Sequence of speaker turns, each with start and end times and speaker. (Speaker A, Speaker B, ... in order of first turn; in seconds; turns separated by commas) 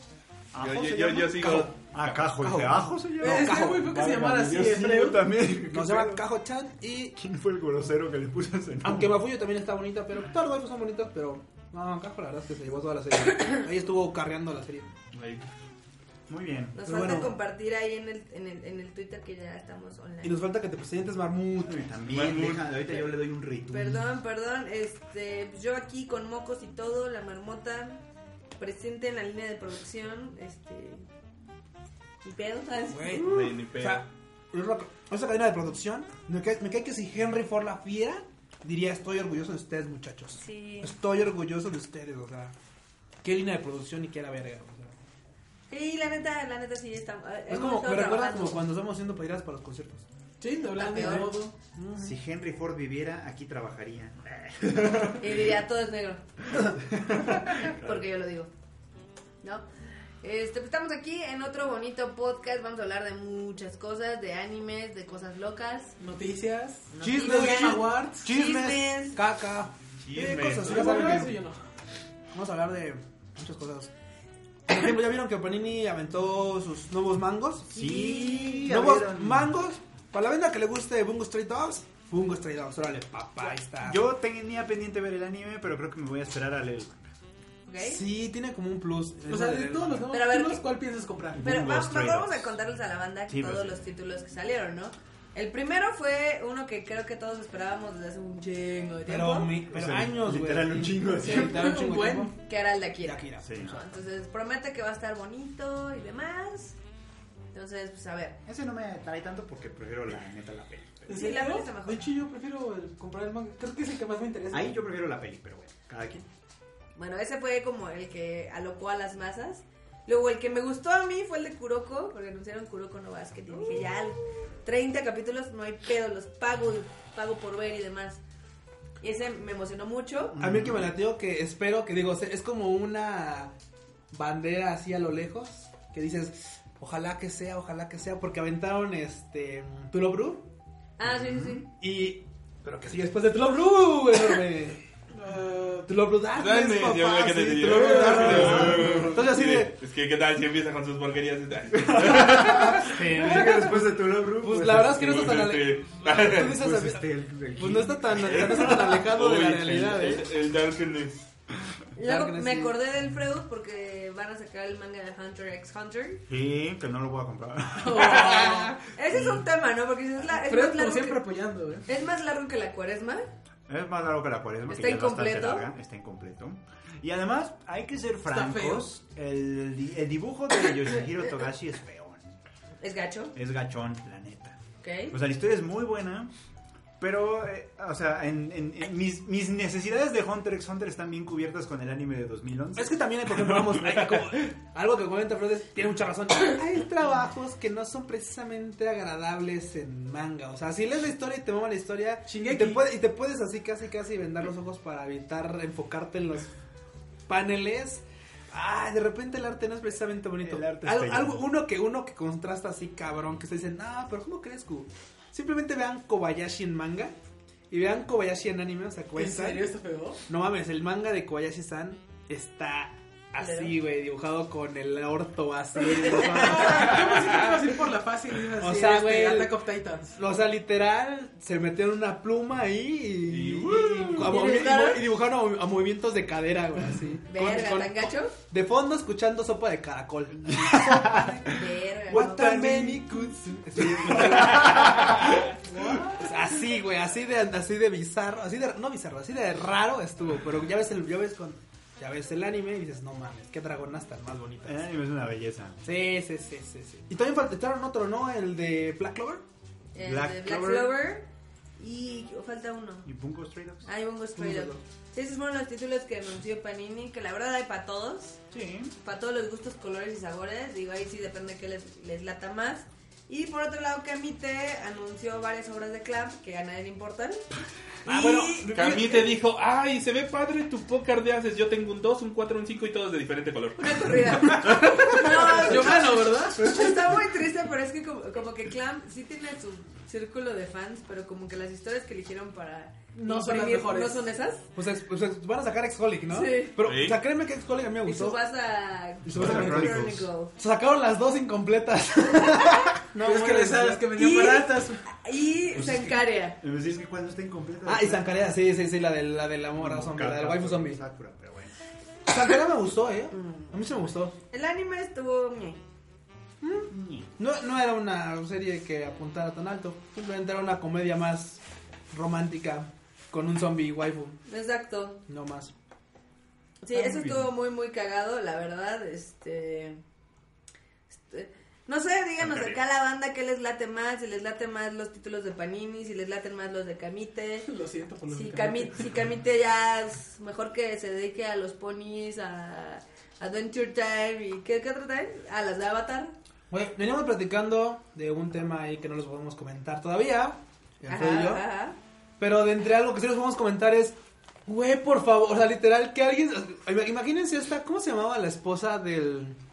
Speaker A: 0.5-6.2, Speaker B: 0.6-2.3, Speaker C: 1.4-1.7, Speaker C: 2.4-4.0, Speaker D: 3.2-5.3, Speaker C: 5.7-7.1, Speaker A: 7.1-9.2, Speaker C: 8.8-14.9, Speaker B: 15.1-15.4, Speaker A: 16.3-16.8, Speaker E: 16.7-20.4, Speaker C: 16.8-17.4, Speaker C: 20.2-21.8, Speaker A: 21.6-24.1, Speaker B: 22.1-23.1, Speaker E: 23.7-28.0, Speaker E: 28.6-31.0, Speaker E: 32.2-33.2, Speaker C: 32.9-42.5, Speaker B: 33.2-34.0, Speaker E: 40.3-40.9, Speaker C: 43.2-44.9, Speaker E: 45.7-48.6, Speaker C: 47.5-50.0, Speaker D: 50.4-51.5, Speaker E: 50.6-51.4, Speaker C: 51.7-52.1, Speaker A: 52.0-55.5, Speaker E: 55.2-56.2, Speaker A: 56.6-58.0, Speaker E: 57.6-58.5, Speaker E: 60.2-66.0, Speaker D: 66.0-68.3, Speaker E: 66.9-69.2, Speaker C: 67.0-71.4, Speaker B: 70.0-71.1, Speaker D: 70.6-71.6, Speaker C: 72.3-73.9, Speaker C: 74.7-77.7, Speaker A: 77.7-79.5, Speaker E: 77.7-78.7, Speaker C: 78.6-84.0, Speaker A: 83.8-87.1, Speaker E: 87.6-88.0, Speaker C: 87.8-90.1, Speaker D: 89.3-91.4, Speaker E: 90.1-90.6, Speaker A: 91.3-92.5, Speaker E: 91.4-99.5, Speaker A: 93.3-93.7, Speaker C: 99.0-102.3, Speaker A: 99.7-101.8, Speaker D: 101.4-102.3, Speaker E: 102.4-106.8, Speaker C: 103.0-103.6, Speaker A: 103.4-103.8, Speaker E: 107.5-108.4, Speaker A: 108.5-111.2, Speaker D: 111.1-114.7, Speaker E: 111.1-112.1, Speaker A: 114.5-116.3, Speaker E: 117.0-128.2, Speaker E: 129.0-130.4, Speaker A: 130.3-130.9, Speaker C: 130.4-133.5, Speaker C: 134.1-140.4, Speaker E: 141.0-141.7, Speaker A: 141.0-141.7, Speaker C: 141.8-144.8, Speaker D: 145.1-145.9, Speaker C: 145.9-149.7, Speaker B: 146.3-152.9, Speaker A: 147.7-149.2, Speaker A: 151.7-155.6, Speaker C: 152.8-157.0, Speaker B: 155.0-156.6, Speaker A: 156.4-158.8, Speaker C: 157.6-160.3, Speaker B: 158.2-161.3, Speaker E: 161.9-166.2, Speaker C: 162.0-162.7, Speaker A: 166.3-168.3, Speaker D: 167.8-168.8, Speaker B: 168.0-168.6, Speaker E: 168.2-171.2, Speaker D: 170.2-171.9, Speaker E: 171.8-173.2, Speaker A: 173.7-182.4, Speaker E: 174.7-175.7, Speaker D: 178.3-178.9, Speaker E: 182.8-183.3, Speaker A: 183.3-184.6, Speaker E: 184.8-185.1, Speaker A: 185.1-186.3, Speaker A: 187.0-193.7, Speaker C: 192.8-206.5, Speaker D: 202.3-202.8, Speaker C: 207.3-217.1, Speaker A: 210.4-211.4, Speaker C: 217.7-219.7, Speaker D: 219.2-220.2, Speaker C: 220.3-227.4, Speaker E: 223.4-223.8, Speaker E: 226.1-226.7, Speaker D: 226.3-230.2, Speaker C: 228.6-229.5, Speaker C: 230.2-254.9, Speaker B: 233.3-234.3, Speaker E: 234.1-235.0, Speaker E: 237.3-238.3, Speaker A: 240.5-241.5, Speaker E: 241.5-242.4, Speaker A: 242.1-245.9, Speaker D: 245.6-246.1, Speaker A: 254.6-255.8, Speaker C: 255.8-259.4, Speaker E: 259.9-261.2, Speaker A: 260.0-261.0, Speaker E: 261.8-263.1, Speaker A: 263.0-263.9, Speaker E: 263.8-268.4, Speaker C: 264.4-264.8, Speaker A: 268.5-268.9, Speaker E: 269.0-277.4, Speaker E: 278.0-279.1, Speaker C: 278.1-279.3, Speaker B: 278.7-285.1, Speaker E: 283.8-294.6, Speaker D: 285.4-286.8, Speaker D: 293.1-294.3, Speaker C: 294.7-298.4, Speaker E: 296.3-296.8, Speaker B: 296.8-297.2, Speaker E: 298.0-300.5, Speaker C: 299.2-304.1, Speaker A: 299.3-300.3, Speaker D: 303.2-305.1, Speaker E: 304.1-306.6, Speaker A: 305.7-308.4, Speaker C: 307.9-311.0, Speaker A: 309.8-311.8, Speaker C: 312.3-314.4, Speaker E: 313.3-313.8, Speaker E: 314.5-315.8, Speaker C: 316.6-324.4, Speaker A: 316.9-317.3, Speaker E: 324.5-325.2, Speaker C: 325.3-325.7, Speaker E: 326.8-330.0, Speaker C: 326.9-327.3, Speaker E: 331.1-337.7, Speaker B: 332.4-332.8, Speaker D: 337.6-339.1, Speaker E: 338.3-346.3, Speaker C: 346.7-351.6, Speaker E: 351.1-352.0, Speaker C: 352.4-359.6